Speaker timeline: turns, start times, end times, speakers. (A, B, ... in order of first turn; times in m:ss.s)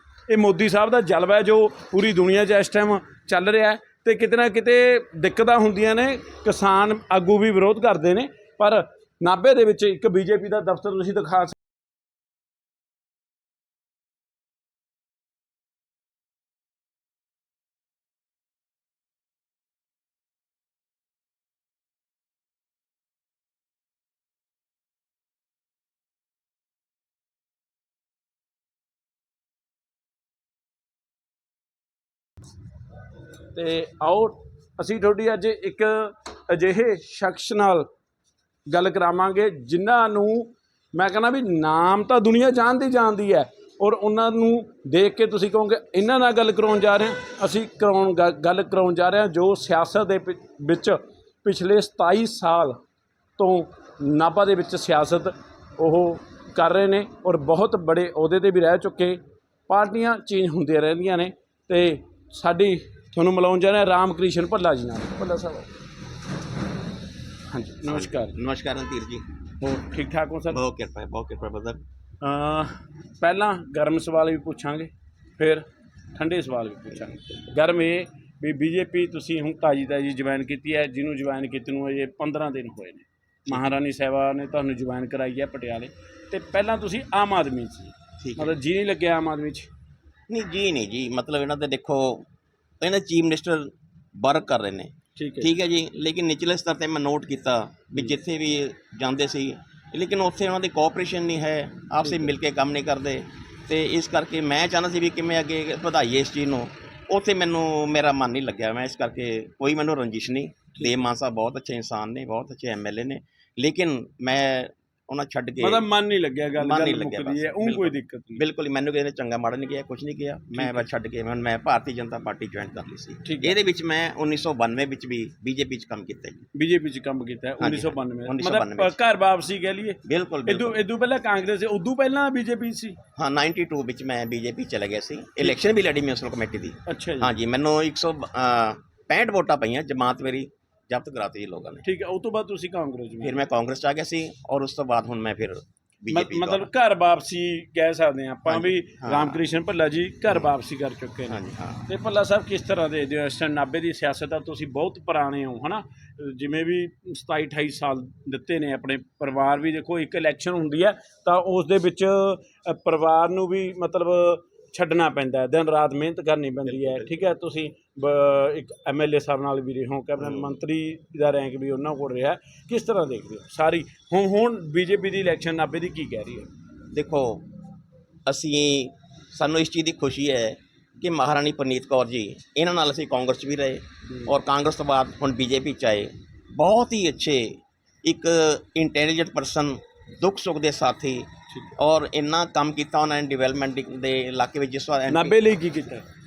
0:00.3-0:11.6 A
0:33.5-0:37.9 A
0:38.7-0:52.8 A
0:53.4-1:05.7 A
1:07.5-1:08.4 A
1:07.8-1:09.2 B
1:09.6-1:10.6 A
1:10.5-1:11.8 B
1:12.2-1:15.6 A
1:16.2-1:29.7 A
1:28.2-1:28.5 B
1:30.3-1:32.3 B
1:32.8-1:55.9 B
1:35.2-1:35.5 A
1:42.0-1:42.3 A
1:50.8-1:51.0 A
1:55.6-1:58.4 A
1:56.5-2:06.5 B
2:00.5-2:00.8 A
2:03.2-2:03.6 A
2:06.5-2:13.0 A
2:07.6-2:09.0 B
2:10.0-2:10.8 B
2:13.2-2:21.8 B
2:16.8-2:17.3 A
2:21.8-2:23.4 A
2:23.2-2:26.7 B
2:26.1-2:56.5 A
2:28.4-2:29.4 B
2:31.3-2:31.8 B
2:46.7-2:47.1 B
2:50.2-2:50.6 B
2:56.9-2:57.5 B
2:58.2-3:15.4 B
3:15.1-3:16.0 A